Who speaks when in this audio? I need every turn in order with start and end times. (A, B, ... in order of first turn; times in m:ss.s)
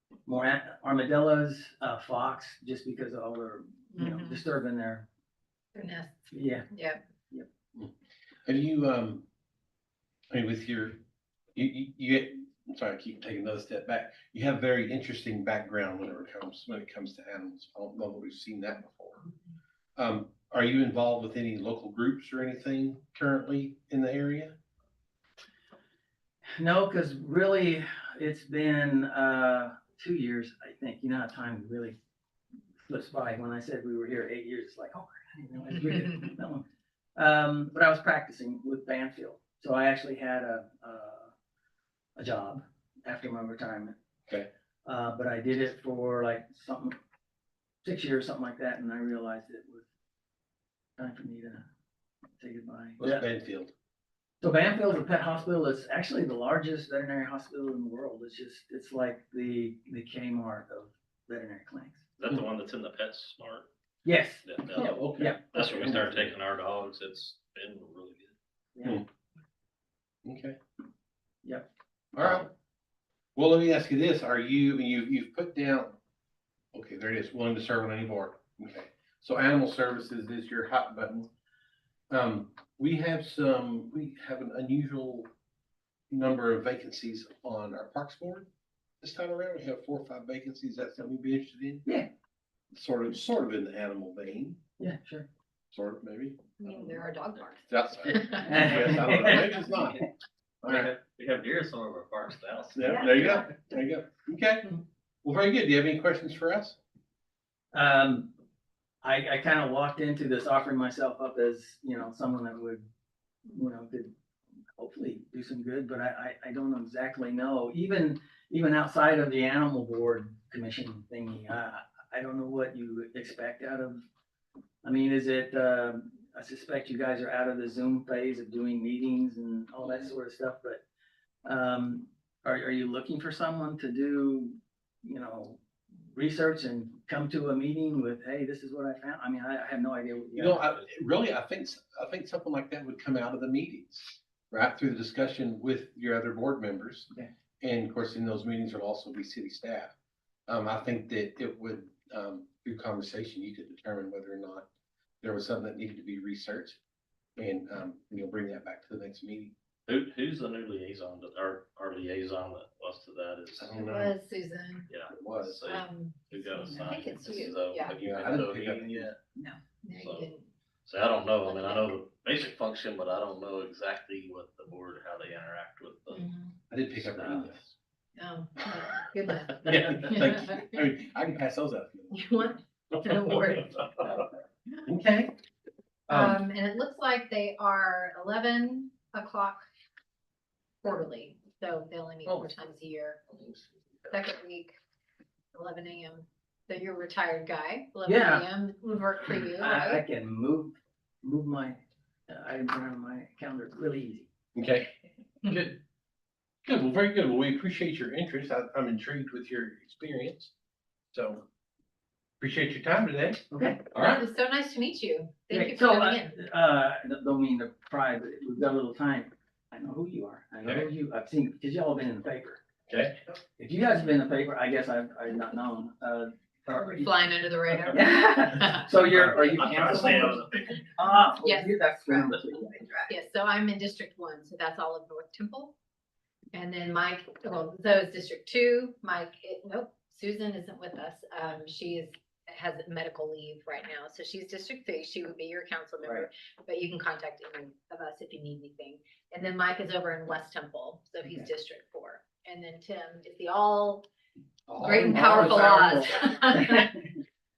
0:00.3-0:05.1 A
0:03.9-0:04.4 B
0:05.8-0:07.0 B
0:06.3-0:06.7 A
0:08.5-0:09.2 C
0:10.3-0:11.0 C
0:11.6-0:19.2 C
0:20.0-0:24.6 C
0:26.6-0:32.0 A
0:32.8-0:36.6 A
0:37.2-0:41.3 A
0:42.2-0:44.0 A
0:44.8-0:47.0 A
0:47.8-0:49.8 A
0:51.0-0:51.7 A
0:52.4-0:53.3 A
0:53.0-0:53.7 C
0:54.4-1:02.0 A
1:02.2-1:03.7 D
1:04.0-1:04.5 A
1:04.4-1:08.3 D
1:04.7-1:06.3 C
1:05.2-1:05.7 A
1:08.8-1:09.0 A
1:10.2-1:10.6 C
1:12.2-1:12.5 C
1:12.2-1:12.5 D
1:13.4-1:16.0 C
1:16.7-1:21.3 C
1:22.1-1:25.3 C
1:26.1-1:28.5 C
1:29.0-1:31.9 C
1:32.7-1:34.6 C
1:34.8-1:35.3 A
1:35.7-1:36.4 C
1:36.6-1:39.1 B
1:37.7-1:40.0 C
1:38.3-1:40.1 A
1:40.6-1:40.9 C
1:40.6-1:43.5 D
1:42.8-1:44.7 C
1:42.9-1:43.3 B
1:45.2-1:46.8 C
1:47.7-1:48.3 A
1:49.0-1:52.9 A
1:53.5-1:54.1 A
1:54.8-2:04.0 A
2:04.8-2:10.8 A
2:11.4-2:20.7 A
2:20.4-2:27.1 C
2:27.6-2:29.9 C
2:30.5-2:34.7 C
2:35.2-2:36.8 C
2:37.4-2:39.5 C
2:39.9-2:43.8 D
2:43.6-2:44.1 C
2:43.8-2:44.9 B
2:44.9-2:49.2 D
2:45.1-2:45.6 C
2:45.7-2:48.0 B
2:48.0-2:49.1 C
2:49.8-2:50.5 B
2:50.0-2:50.3 D
2:50.9-2:56.2 D
2:51.3-2:52.0 B
2:56.1-2:56.6 B
2:56.7-2:57.6 C
2:57.0-2:57.6 D
2:58.2-3:00.8 B
2:59.6-3:02.5 C
3:02.1-3:04.2 B
3:04.8-3:05.3 C
3:06.1-3:06.4 C
3:06.1-3:09.6 B
3:10.8-3:13.2 B
3:12.3-3:12.5 C
3:14.1-3:14.7 B
3:15.5-3:20.0 B
3:18.0-3:18.5 A
3:19.6-3:24.3 A
3:24.6-3:24.9 C
3:25.4-3:25.8 C
3:26.6-3:30.5 C
3:31.1-3:31.4 C
3:32.4-3:34.3 C
3:33.5-3:33.8 A
3:34.1-3:36.4 B
3:35.5-3:42.6 A
3:42.9-3:43.4 C
3:43.6-3:47.1 A
3:46.8-3:48.9 B
3:47.9-3:50.4 A
3:49.1-3:50.9 D
3:51.0-3:53.1 A
3:51.4-3:52.3 B
3:53.1-3:55.8 B
3:56.5-4:14.1 B
4:06.0-4:06.3 A
4:11.2-4:11.5 A
4:14.7-4:15.8 C
4:14.8-4:16.9 B
4:14.8-4:17.0 A